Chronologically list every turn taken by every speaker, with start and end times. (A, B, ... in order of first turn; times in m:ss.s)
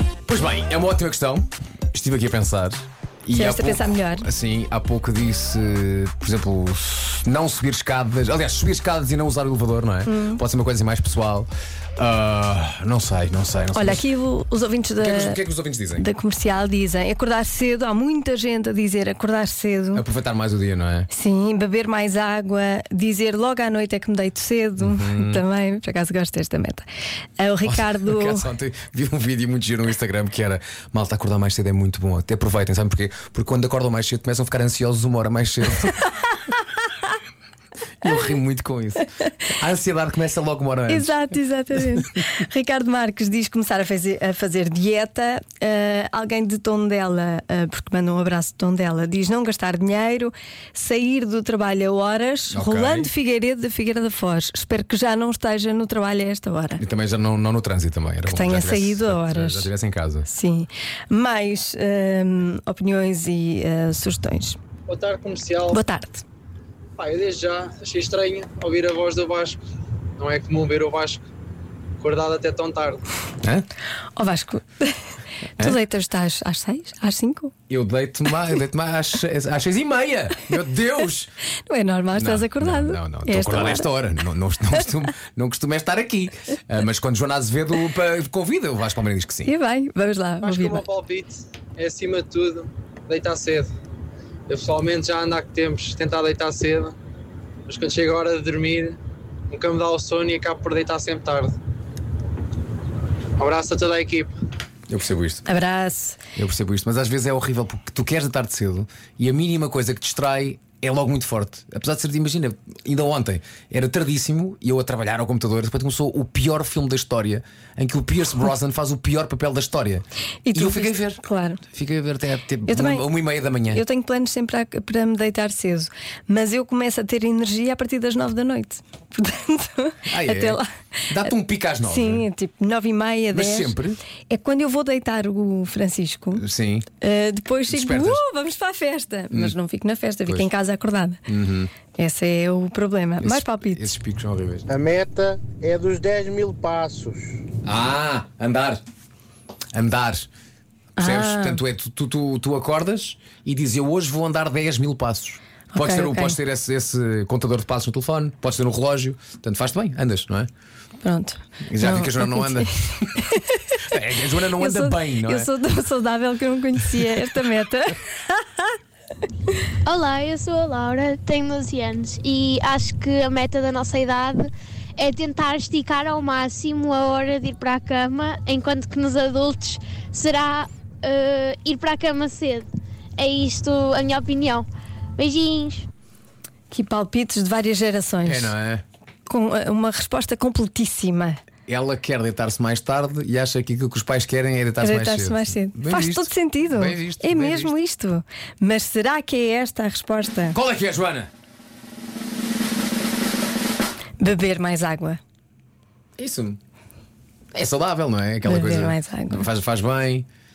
0:00.3-0:14.0 A
0:03.3-0:04.3 B
0:10.1-0:10.4 B
0:13.7-0:15.4 B
0:15.0-0:16.0 A
0:16.0-0:20.0 B
0:19.9-0:21.1 A
0:21.1-0:26.8 B
0:24.8-0:25.4 A
0:27.4-0:28.4 B
0:27.6-0:36.0 A
0:38.0-0:41.1 A
0:40.9-0:56.8 B
0:52.5-0:53.1 A
0:56.8-1:00.3 A
0:58.2-0:59.7 B
1:00.2-1:04.6 B
1:04.9-1:05.8 C
1:05.7-1:06.2 B
1:07.0-1:09.6 C
1:10.2-1:11.2 C
1:12.0-1:13.0 C
1:14.2-1:15.0 B
1:15.6-1:17.5 B
1:17.7-1:21.3 A
1:21.7-1:23.9 B
1:22.2-1:29.5 A
1:29.4-1:30.8 B
1:30.4-1:33.7 C
1:34.5-1:37.0 C
1:37.7-1:39.0 C
1:39.5-1:41.5 C
1:43.4-1:44.3 C
1:44.9-1:45.4 A
1:45.4-1:46.2 B
1:46.3-2:01.2 A
2:00.4-2:01.6 B
2:01.7-2:03.8 A
2:02.6-2:03.0 B
2:03.7-2:10.7 B
2:10.1-2:12.2 A
2:11.8-2:13.8 B
2:13.3-2:14.0 A
2:14.3-2:16.4 B
2:16.3-2:16.8 A
2:17.0-2:21.2 B
2:17.7-2:18.2 A
2:19.3-2:19.6 A
2:21.2-2:21.7 A
2:21.9-2:23.9 B
2:23.2-2:24.6 A
2:24.7-2:27.3 D
2:27.6-2:28.8 A
2:29.7-2:30.3 A
2:31.0-2:31.6 B
2:31.0-2:40.5 A
2:35.7-2:36.4 B
2:41.0-2:43.8 B
2:41.7-2:43.1 A
2:43.8-2:45.5 A
2:44.6-2:48.7 B
2:49.8-3:05.8 E
3:06.7-3:08.5 B
3:08.2-3:08.8 A
3:09.3-3:11.4 B
3:11.7-3:17.7 A
3:14.8-3:20.6 B
3:20.5-3:21.3 A
3:24.2-3:25.2 B
3:26.2-3:26.6 A
3:27.5-3:30.3 A
3:28.4-3:29.4 B